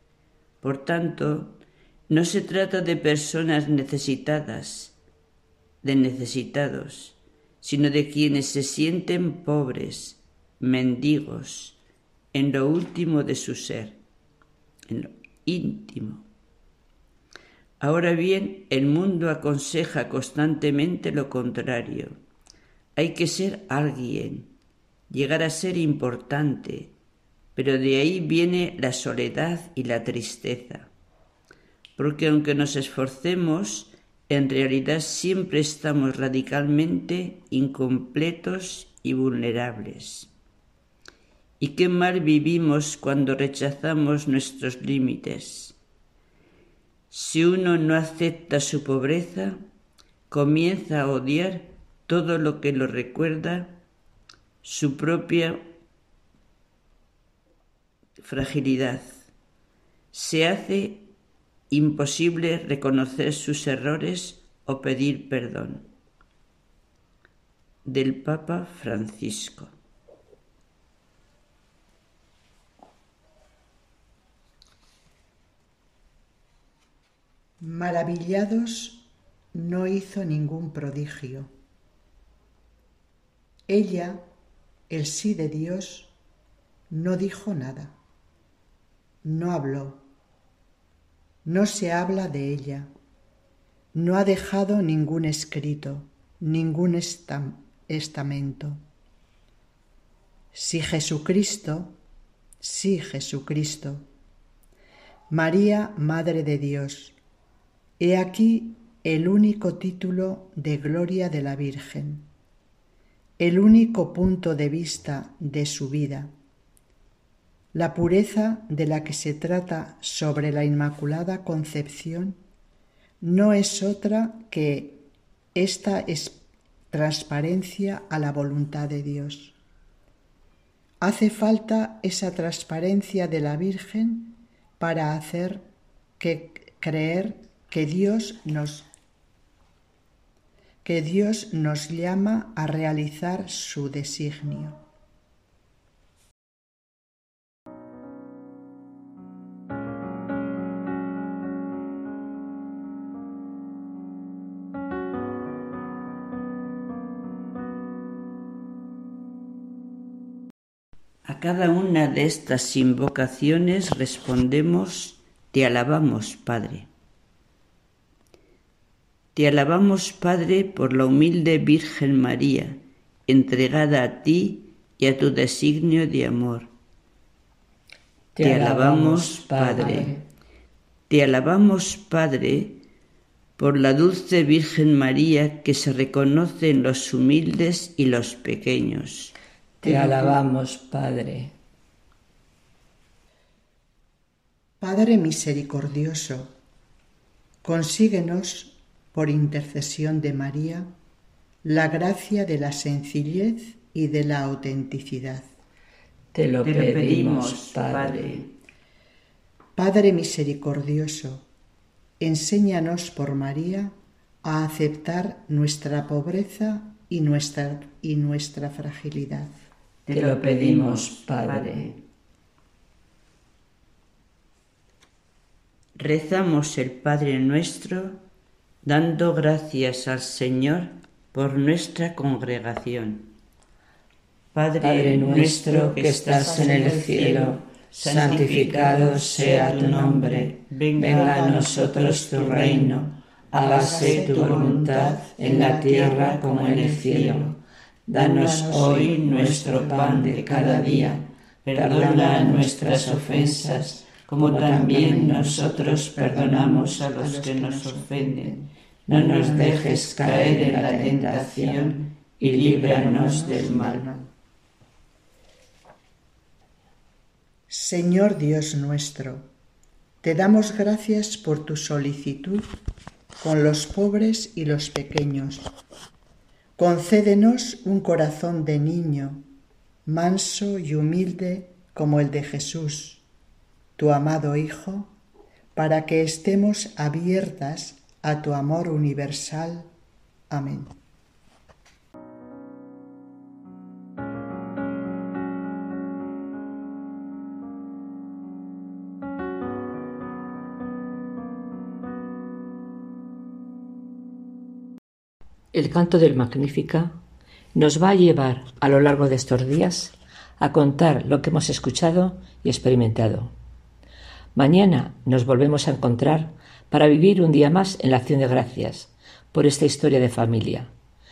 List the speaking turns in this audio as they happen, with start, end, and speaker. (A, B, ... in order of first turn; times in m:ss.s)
0:00.6-0:05.0 A
0:05.8-0:11.8 A
0:12.3-0:14.0 A
0:14.9-0:16.2 A
0:17.8-0:22.1 A
0:23.0-0:24.6 A
0:25.1-0:27.0 A
0:27.5-0:30.9 A
0:32.0-0:40.3 A
0:41.6-0:45.8 A
0:47.1-0:49.6 A
0:50.3-0:53.8 A
0:54.6-0:55.7 A
0:58.2-0:59.1 A
1:00.1-1:01.1 A
1:01.7-1:05.9 A
1:07.8-1:09.7 A
1:17.6-1:21.5 B
1:23.7-1:24.2 B
1:24.9-1:26.1 B
1:26.9-1:28.0 B
1:29.2-1:30.0 B
1:31.4-1:32.9 B
1:33.9-1:38.8 B
1:40.5-1:42.0 B
1:42.6-1:44.1 B
1:45.3-1:47.2 B
1:48.0-1:52.3 B
1:53.4-1:56.3 B
1:57.7-2:02.4 B
2:03.2-2:09.6 B
2:11.0-2:15.6 B
2:16.2-2:18.9 B
2:20.8-2:24.8 B
2:41.2-2:46.9 A
2:49.3-2:56.7 A
2:58.3-3:00.2 C
2:58.4-3:00.2 A
3:01.1-3:02.8 A
3:03.6-3:09.3 A
3:09.8-3:11.5 C
3:09.8-3:10.4 B
3:14.8-3:16.5 B
3:17.6-3:20.9 B
3:21.6-3:25.4 B
3:26.3-3:28.4 C
3:26.6-3:28.5 A
3:29.8-3:31.5 B
3:32.2-3:39.5 B
3:40.0-3:42.0 A
3:40.1-3:41.9 C
3:46.0-3:48.2 A
3:48.8-3:53.3 A
3:54.5-4:07.5 A
3:54.8-4:02.8 C
4:01.0-4:01.6 B
4:02.1-4:03.0 B
4:03.5-4:07.5 C
4:03.6-4:06.1 B
4:08.1-4:11.2 C
4:08.1-4:24.1 A
4:11.7-4:16.6 C
4:16.6-4:18.7 B
4:19.1-4:24.0 C
4:23.1-4:24.2 B
4:27.7-4:29.5 B
4:30.2-4:32.7 B
4:33.4-4:35.7 B
4:36.8-4:39.4 B
4:40.0-4:43.2 B
4:44.0-4:45.1 B
4:45.7-4:49.9 B
4:50.5-4:50.9 B
5:05.7-5:07.1 C
5:07.7-5:13.5 C
5:14.5-5:20.9 C